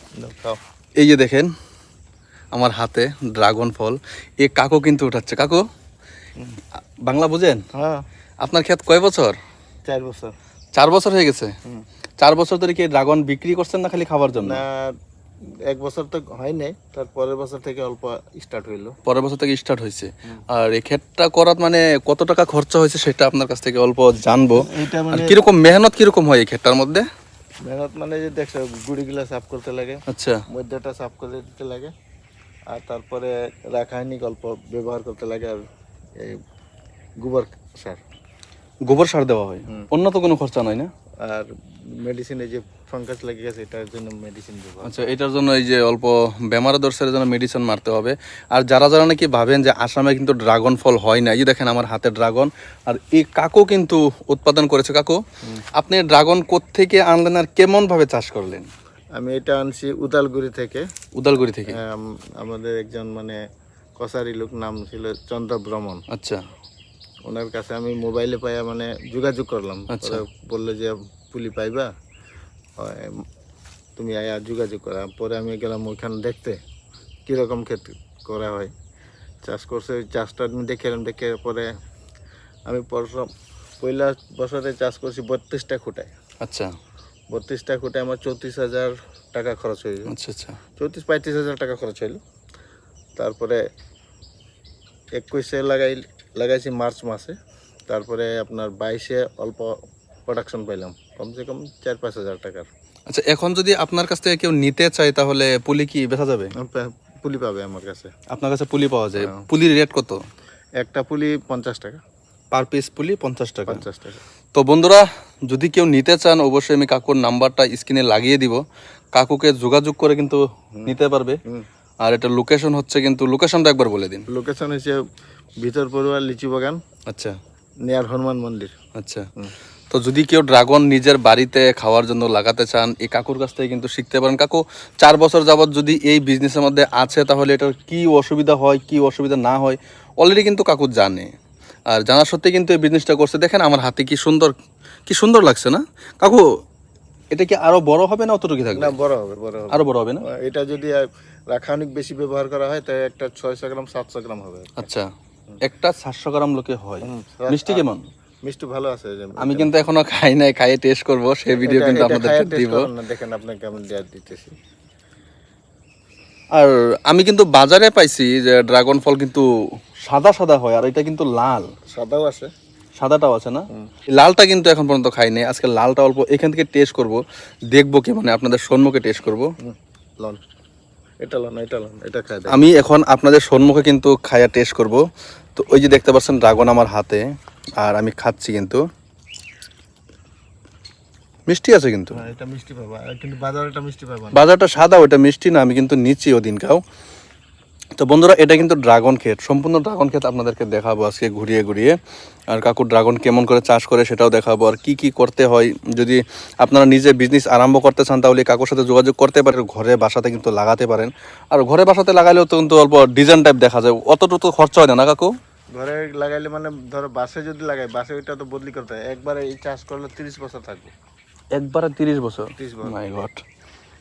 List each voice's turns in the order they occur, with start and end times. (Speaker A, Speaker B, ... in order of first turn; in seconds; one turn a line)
Speaker A: 0.2-0.6
Speaker B: 1.0-1.5
Speaker B: 2.5-5.6
Speaker B: 7.1-7.6
Speaker A: 7.7-8.0
Speaker B: 8.4-9.4
Speaker A: 9.9-10.3
Speaker B: 10.8-11.5
Speaker B: 12.2-14.6
Speaker A: 14.4-14.9
Speaker A: 15.7-19.0
Speaker B: 19.1-27.1
Speaker A: 24.6-25.4
Speaker A: 27.6-31.9
Speaker B: 30.1-30.4
Speaker A: 32.7-35.6
Speaker A: 37.2-38.0
Speaker B: 38.9-40.9
Speaker A: 41.2-44.9
Speaker B: 44.8-55.2
Speaker B: 55.8-58.7
Speaker A: 59.2-60.9
Speaker B: 61.1-61.8
Speaker A: 61.6-63.4
Speaker A: 64.0-66.0
Speaker B: 66.1-66.4
Speaker A: 67.3-71.9
Speaker B: 69.9-70.2
Speaker A: 72.8-73.2
Speaker A: 74.0-76.6
Speaker A: 77.2-78.7
Speaker A: 79.4-81.7
Speaker A: 82.7-83.3
Speaker A: 83.8-86.1
Speaker B: 86.4-86.7
Speaker A: 87.3-90.1
Speaker B: 90.1-90.6
Speaker A: 90.8-92.2
Speaker A: 93.2-93.6
Speaker A: 95.2-97.3
Speaker A: 97.9-102.7
Speaker B: 103.1-106.5
Speaker A: 106.6-108.1
Speaker B: 108.3-110.2
Speaker A: 109.2-109.4
Speaker A: 110.8-112.0
Speaker B: 112.5-113.8
Speaker A: 113.7-114.2
Speaker B: 114.5-118.6
Speaker B: 119.2-121.4
Speaker A: 120.8-121.7
Speaker B: 122.0-124.2
Speaker A: 124.3-125.0
Speaker A: 125.6-126.8
Speaker B: 127.1-127.3
Speaker A: 127.8-128.7
Speaker B: 128.9-129.3
Speaker B: 129.9-141.3
Speaker B: 141.9-144.5
Speaker B: 145.1-146.4
Speaker B: 147.3-148.9
Speaker A: 148.7-154.8
Speaker B: 149.7-150.2
Speaker B: 154.8-155.1
Speaker B: 155.6-158.0
Speaker A: 157.0-157.9
Speaker A: 158.4-159.7
Speaker B: 159.4-162.9
Speaker A: 161.6-164.5
Speaker B: 166.6-169.4
Speaker B: 170.0-171.7
Speaker A: 171.9-172.5
Speaker B: 173.0-177.2
Speaker B: 177.7-179.5
Speaker A: 179.6-180.4
Speaker A: 181.2-182.7
Speaker B: 182.5-185.0
Speaker B: 185.6-187.2
Speaker B: 187.8-188.8
Speaker B: 191.5-192.3
Speaker A: 192.1-194.4
Speaker B: 194.3-196.8
Speaker B: 198.0-202.0
Speaker B: 202.5-215.3
Speaker A: 215.7-220.9
Speaker B: 221.5-223.4
Speaker A: 222.6-223.1